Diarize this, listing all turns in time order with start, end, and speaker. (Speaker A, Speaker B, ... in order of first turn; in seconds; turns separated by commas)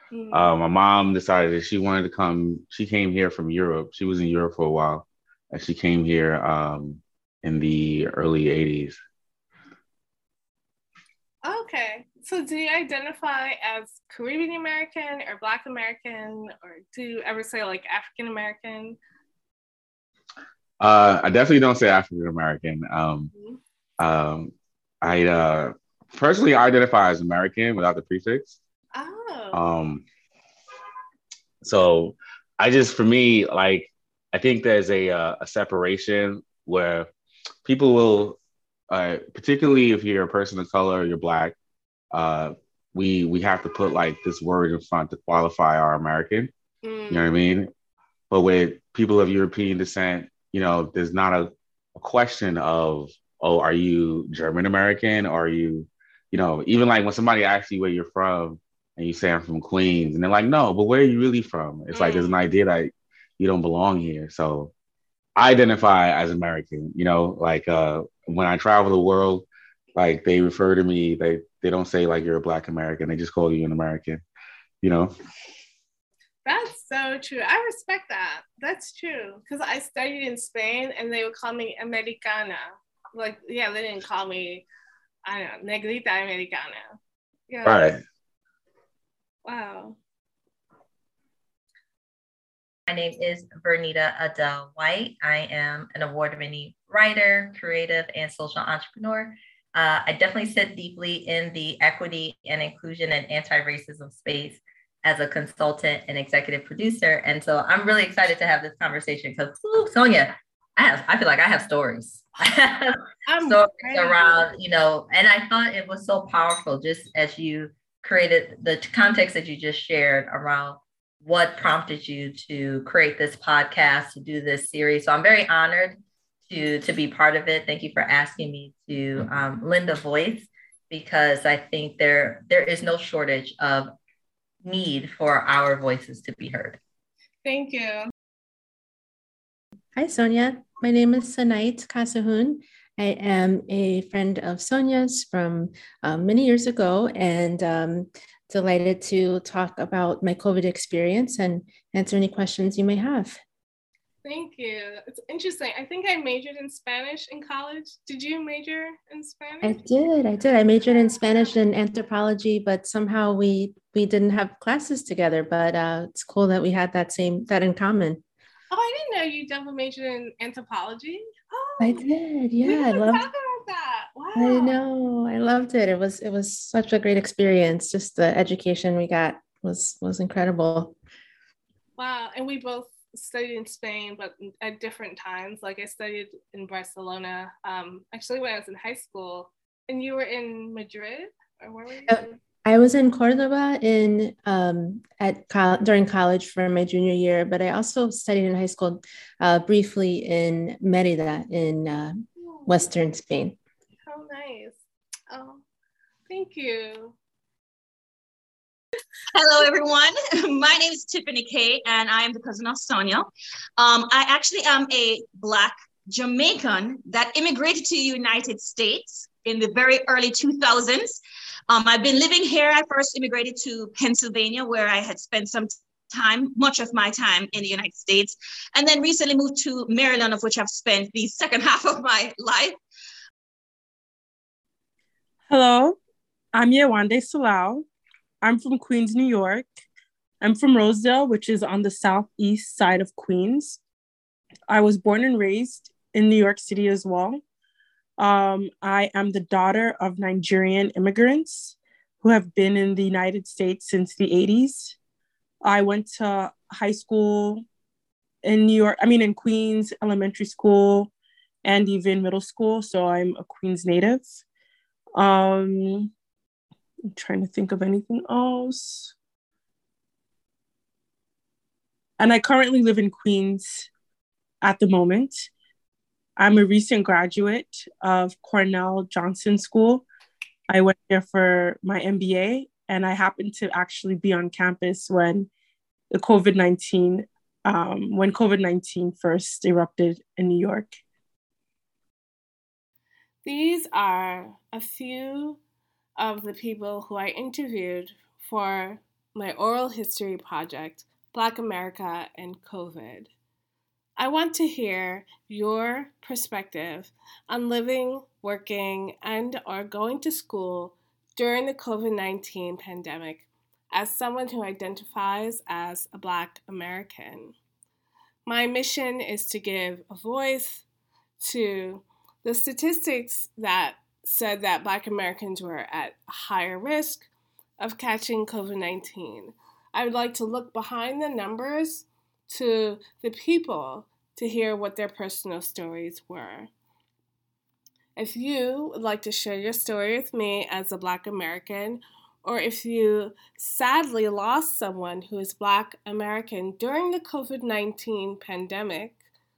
Speaker A: 0.1-0.5, Speaker B: 0.3-9.0, Speaker A: 11.4-19.0, Speaker B: 20.8-23.3, Speaker A: 23.3-23.6, Speaker B: 24.0-28.6, Speaker A: 28.9-29.6, Speaker B: 29.5-30.1, Speaker B: 31.6-37.1, Speaker B: 37.6-38.4, Speaker B: 38.9-41.6, Speaker B: 42.1-46.5, Speaker A: 46.8-47.3, Speaker B: 47.1-47.7, Speaker B: 48.3-64.7, Speaker A: 61.9-62.4, Speaker B: 65.4-74.2, Speaker B: 74.8-75.1, Speaker A: 76.5-84.7, Speaker A: 85.3-87.0, Speaker A: 87.5-87.8, Speaker B: 87.6-88.0, Speaker A: 89.5-90.0, Speaker C: 92.9-133.9, Speaker A: 113.3-114.5, Speaker C: 134.6-136.8, Speaker A: 137.4-138.1, Speaker D: 140.0-153.4, Speaker A: 154.2-159.8, Speaker D: 159.6-168.2, Speaker A: 161.0-161.5, Speaker A: 168.7-172.1, Speaker D: 171.8-173.2, Speaker A: 172.6-174.8, Speaker D: 174.4-181.0, Speaker A: 182.0-192.3, Speaker D: 192.1-203.6, Speaker A: 204.1-204.8, Speaker A: 205.3-205.6, Speaker A: 206.3-207.2, Speaker E: 209.3-232.8, Speaker F: 235.5-236.0, Speaker F: 236.5-237.8, Speaker F: 238.4-239.7, Speaker F: 240.4-243.8, Speaker F: 244.7-247.4, Speaker F: 248.2-255.0, Speaker F: 255.6-257.6, Speaker F: 258.4-261.1, Speaker F: 261.6-264.3, Speaker F: 265.2-266.1, Speaker F: 267.2-269.1, Speaker F: 272.2-273.9, Speaker F: 274.6-275.5, Speaker F: 276.4-280.1, Speaker F: 280.7-285.5, Speaker F: 286.1-291.0, Speaker A: 293.4-295.6, Speaker A: 296.2-303.3, Speaker A: 304.2-317.6, Speaker A: 318.5-320.9, Speaker A: 321.4-327.3, Speaker A: 327.8-336.7, Speaker A: 338.2-349.2